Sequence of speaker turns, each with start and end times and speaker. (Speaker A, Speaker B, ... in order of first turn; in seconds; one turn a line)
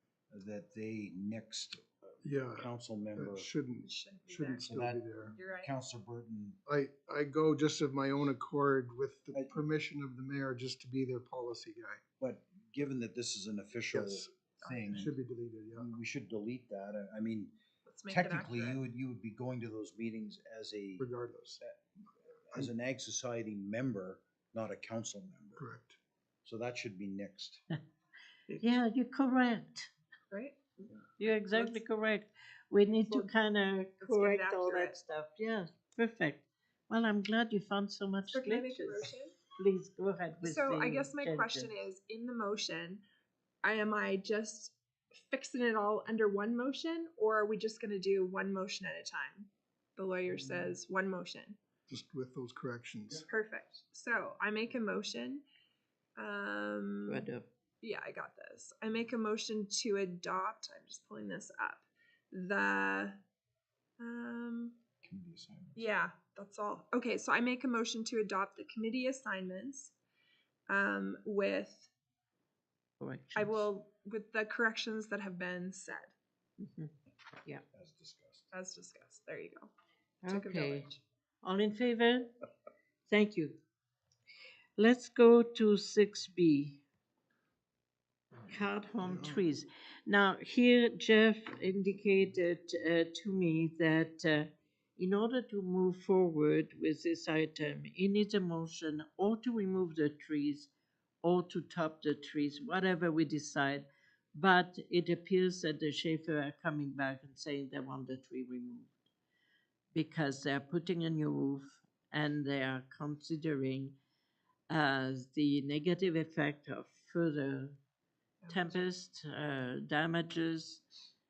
Speaker A: 0.3-3.5
Speaker B: 2.2-2.6
Speaker B: 3.2-5.3
Speaker C: 3.8-4.7
Speaker A: 4.6-6.6
Speaker C: 5.3-5.7
Speaker B: 6.7-12.0
Speaker A: 12.2-15.1
Speaker B: 13.9-14.2
Speaker C: 14.6-15.1
Speaker B: 15.0-15.8
Speaker A: 15.7-17.5
Speaker C: 17.9-18.8
Speaker A: 18.1-21.8
Speaker B: 21.0-21.6
Speaker A: 22.3-25.6
Speaker B: 25.6-26.0
Speaker A: 26.4-27.6
Speaker D: 28.6-29.9
Speaker C: 30.3-31.8
Speaker D: 31.2-41.7
Speaker C: 34.0-35.0
Speaker C: 38.3-39.4
Speaker C: 40.4-43.0
Speaker C: 43.6-51.6
Speaker B: 51.9-53.2
Speaker C: 53.3-55.4
Speaker C: 56.2-57.2
Speaker D: 57.0-57.4
Speaker C: 57.8-63.2
Speaker C: 64.0-64.8
Speaker A: 65.0-65.9
Speaker C: 65.8-69.9
Speaker C: 70.7-71.9
Speaker D: 73.0-73.7
Speaker C: 73.3-76.1
Speaker D: 76.6-76.9
Speaker A: 77.7-78.5
Speaker C: 78.5-79.7
Speaker D: 80.2-80.9
Speaker C: 80.3-81.0
Speaker D: 81.4-82.3
Speaker D: 83.1-83.6
Speaker D: 84.8-86.8
Speaker D: 88.5-100.7
Speaker D: 101.2-109.0
Speaker D: 109.9-113.9
Speaker D: 114.7-117.8
Speaker C: 118.4-118.8
Speaker D: 118.5-120.8